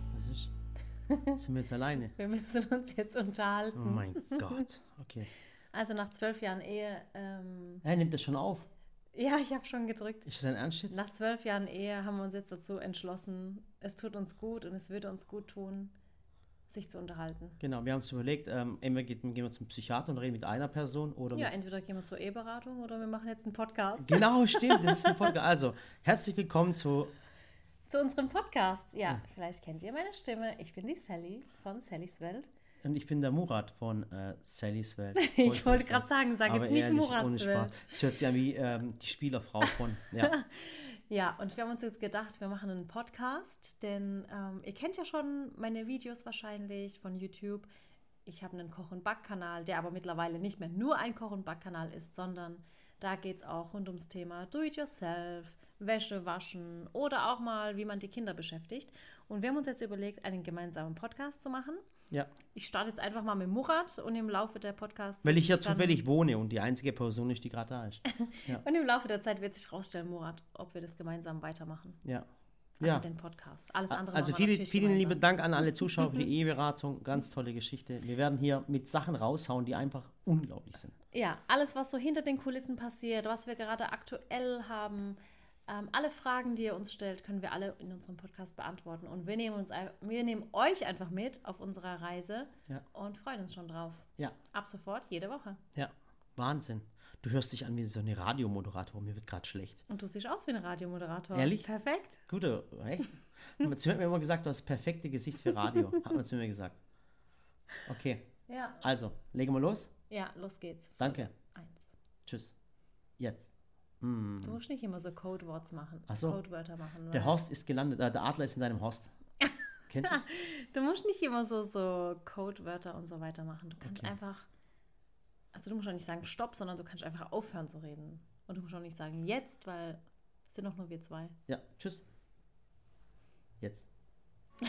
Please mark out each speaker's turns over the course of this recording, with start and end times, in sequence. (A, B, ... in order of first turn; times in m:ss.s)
0:00.1-0:00.5 A
0:01.1-0:01.4 B
0:01.4-0:02.2 A
0:02.0-0:04.6 B
0:03.8-0:05.3 A
0:05.7-0:07.8 B
0:07.8-0:08.7 A
0:09.1-0:10.3 B
0:10.3-0:11.0 A
0:10.9-0:15.9 B
0:16.7-0:17.6 B
0:17.6-0:21.5 A
0:21.3-0:25.3 B
0:24.0-0:27.1 A
0:27.9-0:32.5 B
0:32.8-0:40.4 A
0:35.2-0:38.0 B
0:40.2-0:47.7 B
0:48.3-1:01.8 B
1:02.5-1:06.0 B
1:05.2-1:08.6 A
1:08.1-1:12.0 B
1:12.8-1:16.2 B
1:13.9-1:21.0 A
1:21.1-1:35.6 B
1:35.7-1:39.8 A
1:39.9-1:42.2 B
1:41.3-1:41.7 A
1:42.3-1:46.8 A
1:47.9-1:48.2 A
1:48.5-1:48.8 B
1:48.8-1:49.9 A
1:50.1-1:51.9 B
1:51.0-1:51.3 A
1:52.3-1:52.5 A
1:53.2-1:53.5 A
1:54.0-1:54.6 A
1:54.4-1:57.4 B
1:56.1-1:56.4 A
1:57.1-1:59.1 A
1:59.4-2:04.5 B
1:59.9-2:00.3 A
2:03.8-2:04.1 A
2:05.5-2:11.4 B
2:11.5-2:12.0 A
2:13.6-2:13.9 A